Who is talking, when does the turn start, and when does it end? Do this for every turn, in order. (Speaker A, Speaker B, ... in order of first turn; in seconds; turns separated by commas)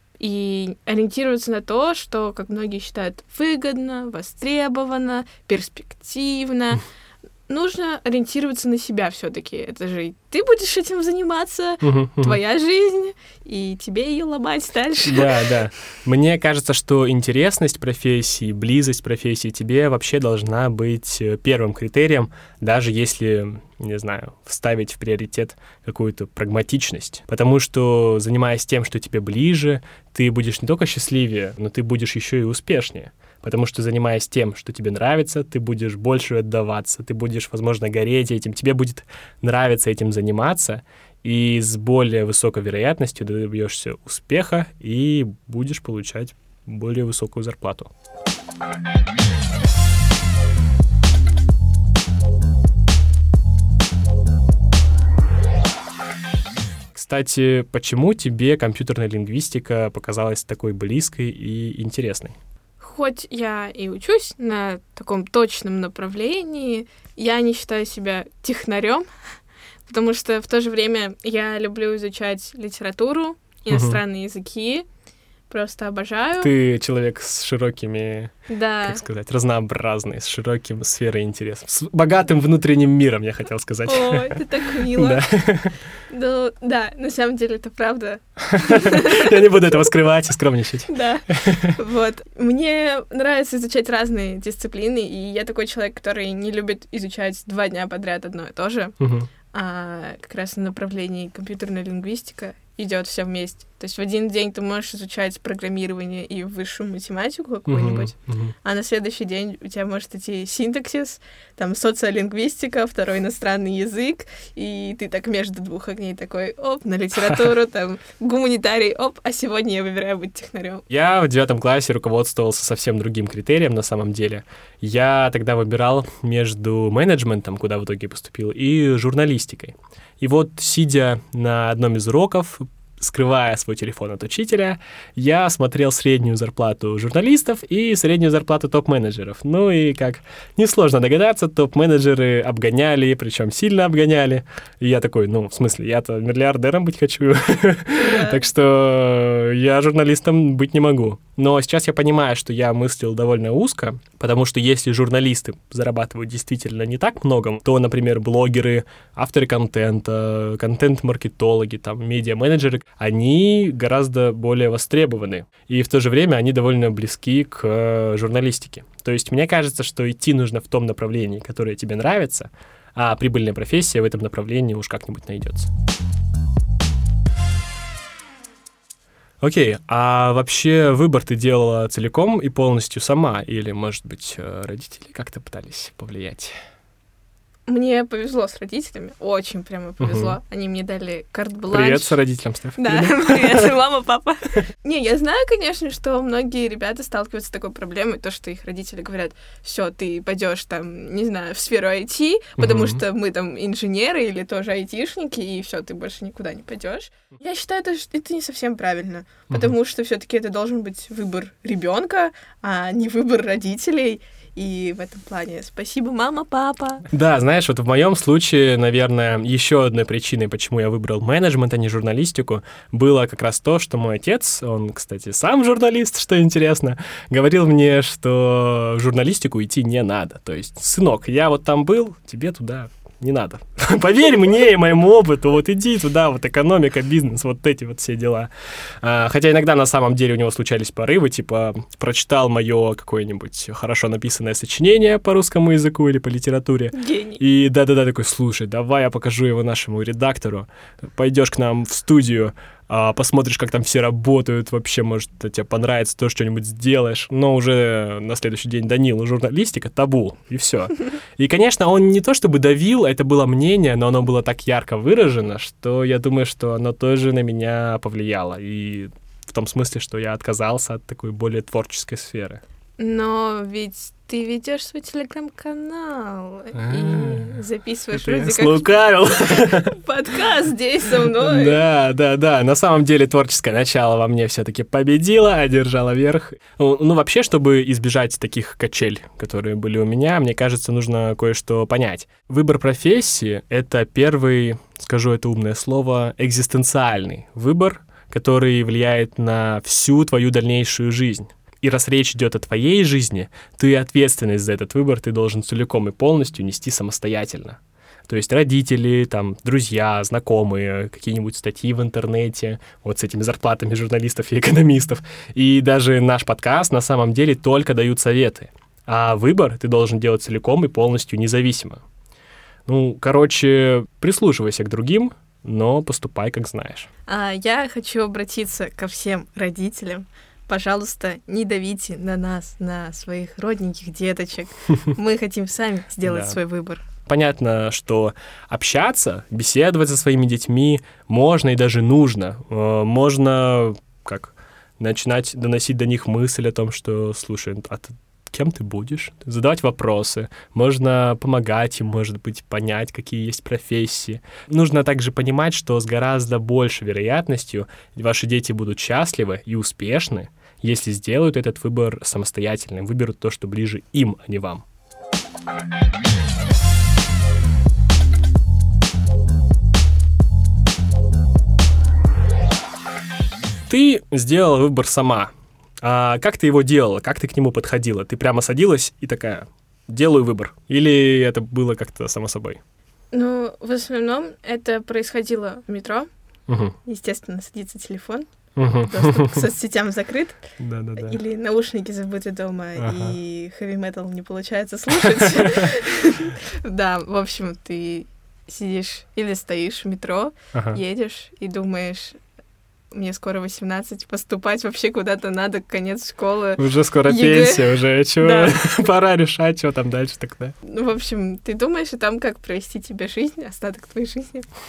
Speaker A: 0.2-6.8, Speaker A: 7.5-15.5, Speaker B: 11.8-12.4, Speaker B: 15.0-47.9, Speaker B: 56.9-62.4, Speaker A: 62.8-69.1, Speaker A: 69.9-74.9, Speaker B: 73.7-74.0, Speaker A: 75.5-76.5, Speaker B: 76.3-78.3, Speaker A: 78.5-79.0, Speaker B: 78.8-85.8, Speaker A: 83.8-85.3, Speaker A: 86.1-89.9, Speaker B: 88.4-91.8, Speaker A: 90.9-99.0, Speaker B: 99.0-99.3, Speaker A: 99.5-120.8, Speaker B: 107.7-108.5, Speaker B: 120.9-175.7, Speaker A: 148.0-148.4, Speaker B: 179.4-186.6, Speaker A: 187.7-192.2, Speaker B: 190.0-190.3, Speaker B: 191.7-193.7, Speaker A: 192.8-217.1, Speaker B: 202.6-203.0, Speaker B: 217.1-238.5, Speaker B: 239.0-272.6, Speaker A: 246.9-247.4, Speaker A: 273.0-278.9, Speaker B: 276.7-277.6, Speaker B: 278.1-279.9, Speaker A: 279.4-281.8, Speaker B: 281.4-322.0, Speaker B: 322.9-327.1, Speaker A: 327.3-337.0, Speaker B: 336.2-336.6, Speaker B: 337.3-364.8, Speaker B: 373.9-382.8, Speaker A: 383.3-386.3, Speaker B: 386.7-386.9, Speaker A: 387.1-388.5, Speaker B: 388.8-389.7, Speaker A: 389.0-390.6, Speaker B: 390.8-391.4, Speaker A: 391.1-402.4, Speaker B: 392.9-393.4, Speaker B: 400.7-401.0, Speaker A: 403.1-408.7, Speaker B: 406.8-410.8, Speaker A: 410.8-414.7